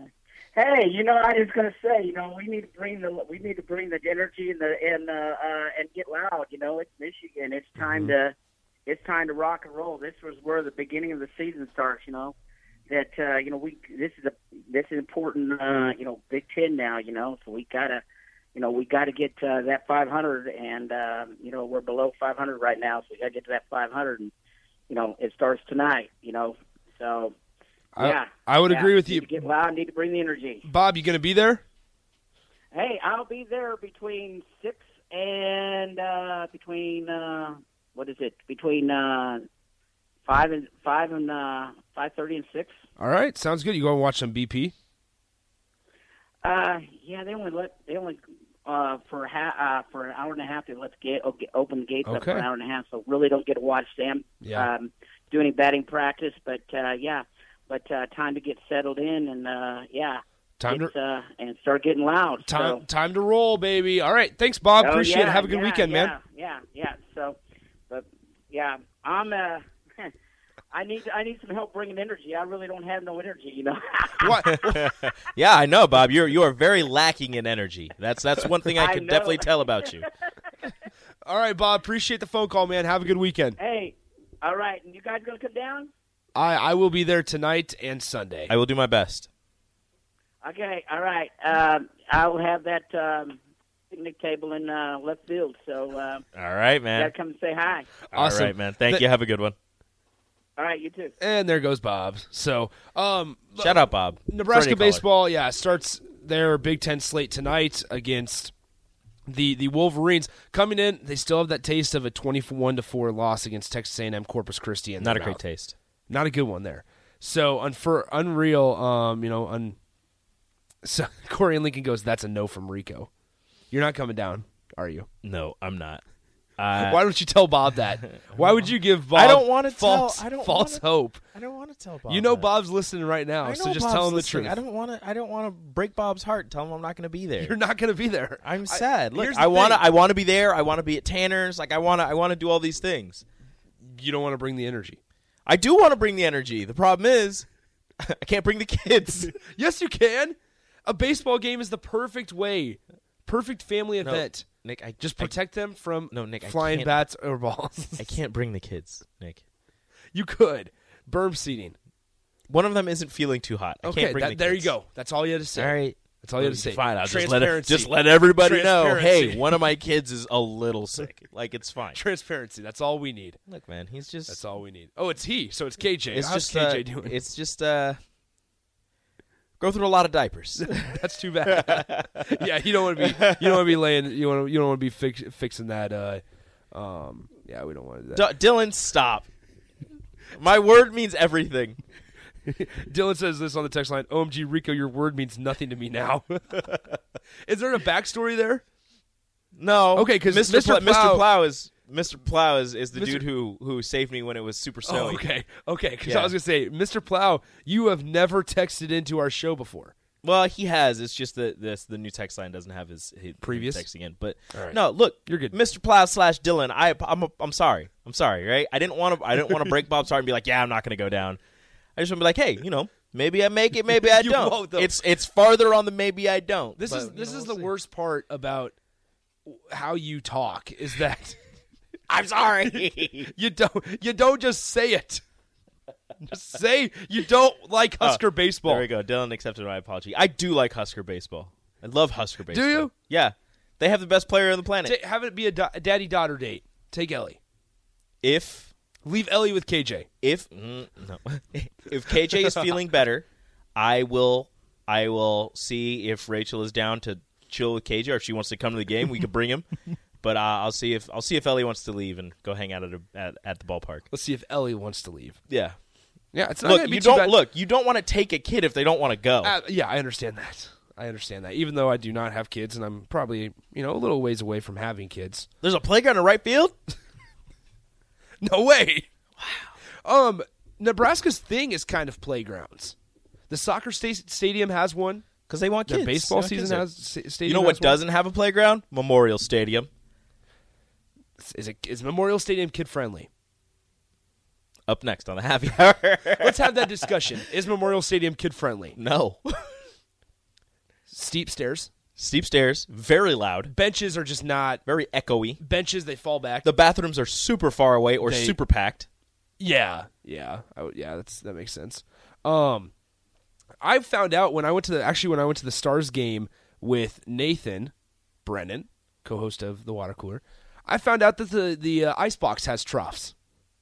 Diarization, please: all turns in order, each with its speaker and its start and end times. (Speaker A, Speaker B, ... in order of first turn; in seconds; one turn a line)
Speaker A: 0.6-8.3
Speaker A: 8.9-12.3
Speaker A: 12.9-18.0
Speaker A: 18.5-24.3
Speaker A: 24.9-27.3
Speaker B: 27.9-29.4
Speaker A: 28.0-30.6
Speaker B: 30.6-31.6
Speaker A: 32.7-39.4
Speaker A: 40.2-42.7
Speaker B: 43.0-44.7
Speaker A: 46.4-62.8
Speaker B: 52.0-52.5
Speaker B: 54.4-54.7
Speaker B: 60.6-60.9
Speaker B: 62.4-66.2
Speaker A: 64.8-67.4
Speaker A: 67.9-70.1
Speaker A: 70.7-74.7
Speaker B: 74.2-74.7
Speaker C: 74.6-80.1
Speaker A: 78.8-79.5
Speaker B: 81.2-83.6
Speaker A: 83.6-85.9
Speaker B: 86.3-88.5
Speaker C: 88.5-89.3
Speaker A: 90.4-93.4
Speaker A: 93.9-96.2
Speaker C: 96.3-97.1
Speaker A: 97.0-97.9
Speaker B: 98.1-99.1
Speaker C: 98.1-99.5
Speaker A: 100.6-101.1
Speaker B: 101.2-108.5
Speaker C: 103.6-105.0
Speaker B: 109.3-115.4
Speaker C: 115.0-115.8
Speaker B: 116.1-119.8
Speaker B: 120.8-123.1
Speaker B: 123.7-125.1
Speaker C: 125.2-126.0
Speaker C: 126.6-127.0
Speaker B: 126.8-131.2
Speaker C: 129.1-132.5
Speaker B: 132.1-134.6
Speaker C: 133.4-137.6
Speaker B: 137.4-139.8
Speaker C: 138.4-143.2
Speaker B: 143.8-145.0
Speaker C: 145.5-147.5
Speaker C: 148.0-149.4
Speaker B: 149.1-154.5
Speaker C: 154.0-155.4
Speaker B: 155.0-158.2
Speaker C: 156.1-157.0
Speaker C: 158.0-159.4
Speaker B: 160.1-161.8
Speaker C: 162.5-164.7
Speaker B: 163.8-169.6
Speaker C: 165.6-172.0
Speaker B: 171.9-173.4
Speaker C: 173.5-174.4
Speaker B: 174.3-177.2
Speaker C: 176.1-178.0
Speaker C: 179.6-180.8
Speaker B: 180.6-188.3
Speaker C: 181.5-183.8
Speaker C: 188.1-189.3
Speaker C: 190.3-191.8
Speaker B: 192.5-196.8
Speaker B: 197.5-198.6
Speaker C: 199.6-205.2
Speaker B: 199.9-201.3
Speaker B: 202.9-203.3
Speaker B: 204.8-209.9
Speaker C: 206.0-206.3
Speaker C: 210.2-221.4
Speaker B: 213.4-213.8
Speaker B: 214.5-215.6
Speaker C: 222.0-227.7
Speaker B: 224.0-225.0
Speaker B: 226.8-228.8
Speaker B: 229.5-231.4
Speaker C: 232.1-233.3
Speaker B: 232.6-235.2
Speaker B: 236.3-238.9
Speaker C: 238.0-244.9
Speaker B: 242.5-242.9
Speaker B: 244.8-247.4
Speaker C: 248.2-248.7
Speaker B: 249.1-250.1
Speaker C: 250.2-253.2
Speaker C: 253.8-259.7
Speaker C: 260.2-264.1
Speaker B: 264.1-265.4
Speaker C: 265.5-265.8
Speaker B: 266.3-267.4
Speaker C: 266.6-269.5
Speaker B: 269.4-275.5
Speaker C: 275.6-276.8
Speaker B: 278.4-279.1
Speaker C: 279.4-279.7
Speaker B: 280.0-282.9
Speaker B: 283.5-285.3
Speaker C: 285.5-286.9
Speaker B: 285.9-288.0
Speaker C: 287.4-289.9
Speaker B: 291.4-293.3
Speaker C: 294.9-297.2
Speaker B: 296.4-299.0
Speaker C: 299.0-299.8
Speaker B: 301.1-301.9
Speaker C: 302.2-303.7
Speaker B: 303.7-304.8
Speaker C: 304.9-305.6
Speaker B: 305.6-306.7
Speaker C: 306.6-309.1
Speaker B: 308.2-308.6
Speaker B: 309.6-312.9
Speaker B: 313.8-317.9
Speaker B: 318.4-323.3